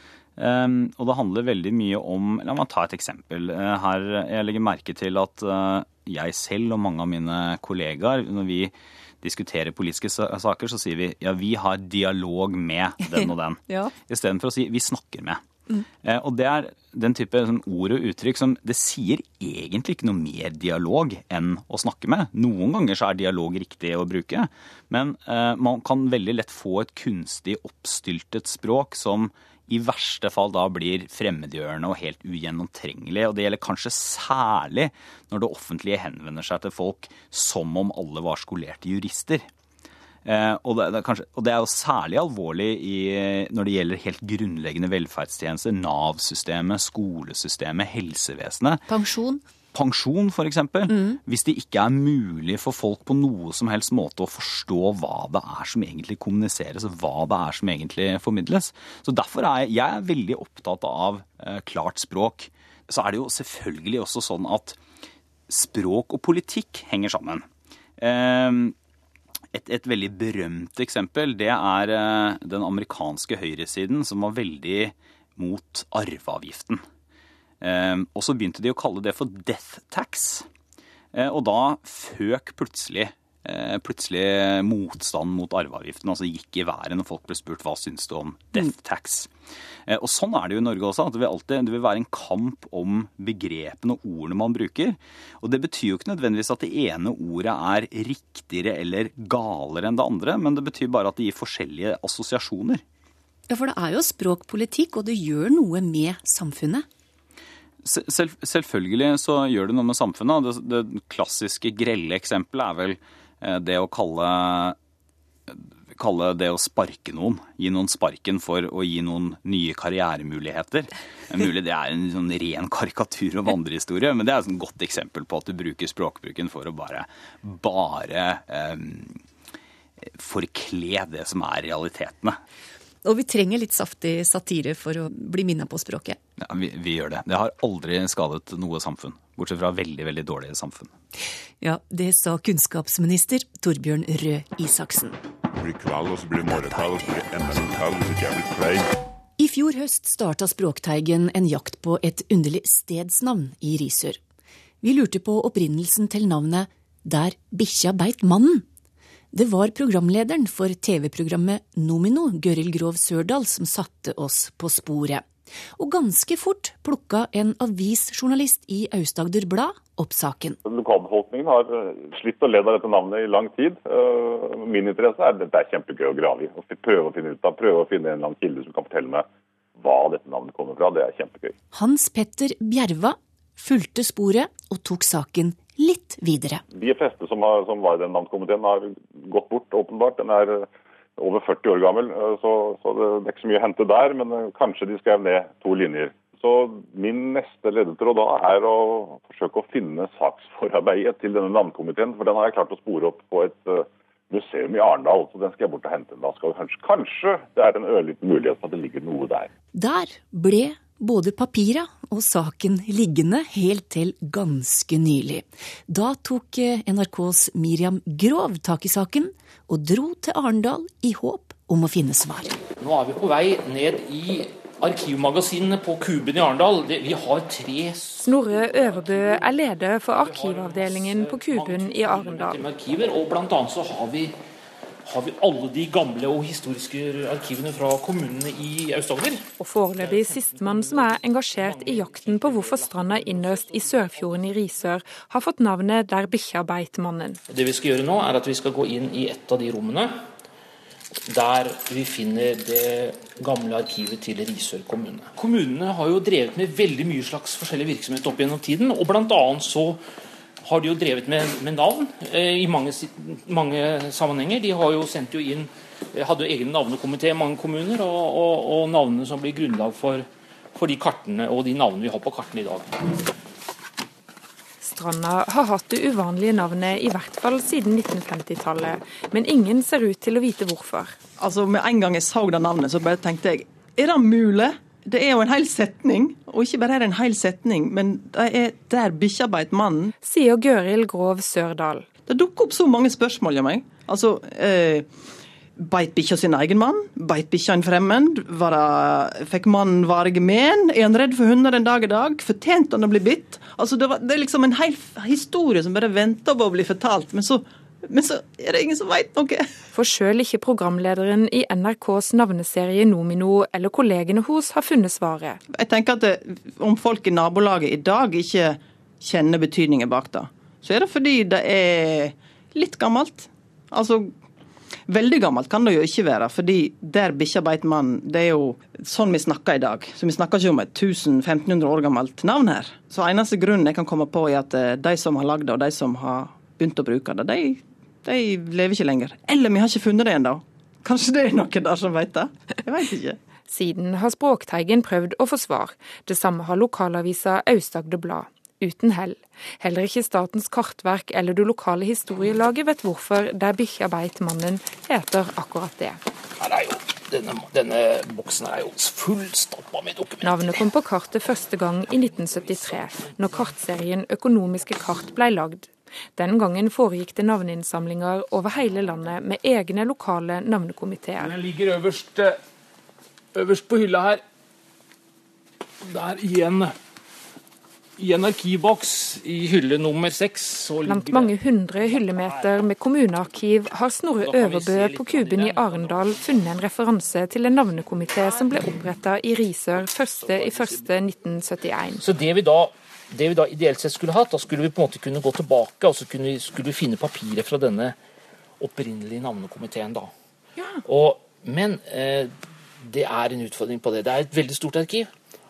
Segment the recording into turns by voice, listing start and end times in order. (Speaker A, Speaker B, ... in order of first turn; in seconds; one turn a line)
Speaker A: 0.4-15.4
Speaker A: 16.0-39.4
Speaker A: 40.2-48.8
Speaker B: 48.9-49.4
Speaker A: 49.7-64.8
Speaker B: 50.9-51.2
Speaker A: 65.5-67.4
Speaker A: 68.0-68.7
Speaker A: 69.5-76.8
Speaker A: 77.6-80.5
Speaker A: 81.1-89.3
Speaker A: 89.9-102.8
Speaker B: 103.5-106.8
Speaker A: 107.8-114.8
Speaker A: 115.5-129.2
Speaker A: 130.1-132.4
Speaker B: 133.0-136.2
Speaker A: 136.4-140.9
Speaker B: 141.6-145.2
Speaker C: 145.6-148.9
Speaker B: 146.4-147.8
Speaker B: 149.4-154.2
Speaker B: 154.8-158.6
Speaker B: 159.3-165.2
Speaker B: 165.8-170.6
Speaker D: 170.6-179.2
Speaker D: 179.8-181.5
Speaker B: 181.7-186.6
Speaker D: 186.7-209.5
Speaker B: 209.7-222.6
Speaker E: 222.7-234.3
Speaker F: 228.2-232.6
Speaker E: 235.0-244.5
Speaker F: 239.6-247.4
Speaker E: 247.5-250.2
Speaker E: 251.3-260.0
Speaker E: 260.6-273.0
Speaker F: 274.8-281.1
Speaker G: 281.4-290.1
Speaker F: 290.2-292.1
Speaker G: 292.3-295.1
Speaker G: 295.8-309.7
Speaker F: 309.9-315.6
Speaker G: 315.7-324.3
Speaker G: 325.1-343.4
Speaker F: 343.7-356.2
Speaker E: 356.6-360.9
Speaker F: 360.4-371.5
Speaker E: 371.4-372.6
Speaker E: 373.5-374.4
Speaker E: 376.0-376.9
Speaker E: 378.2-381.5
Speaker F: 381.0-392.2
Speaker E: 382.1-382.7
Speaker E: 384.3-386.7
Speaker E: 390.4-391.0
Speaker E: 392.2-398.2
Speaker E: 398.8-400.3
Speaker E: 401.0-405.3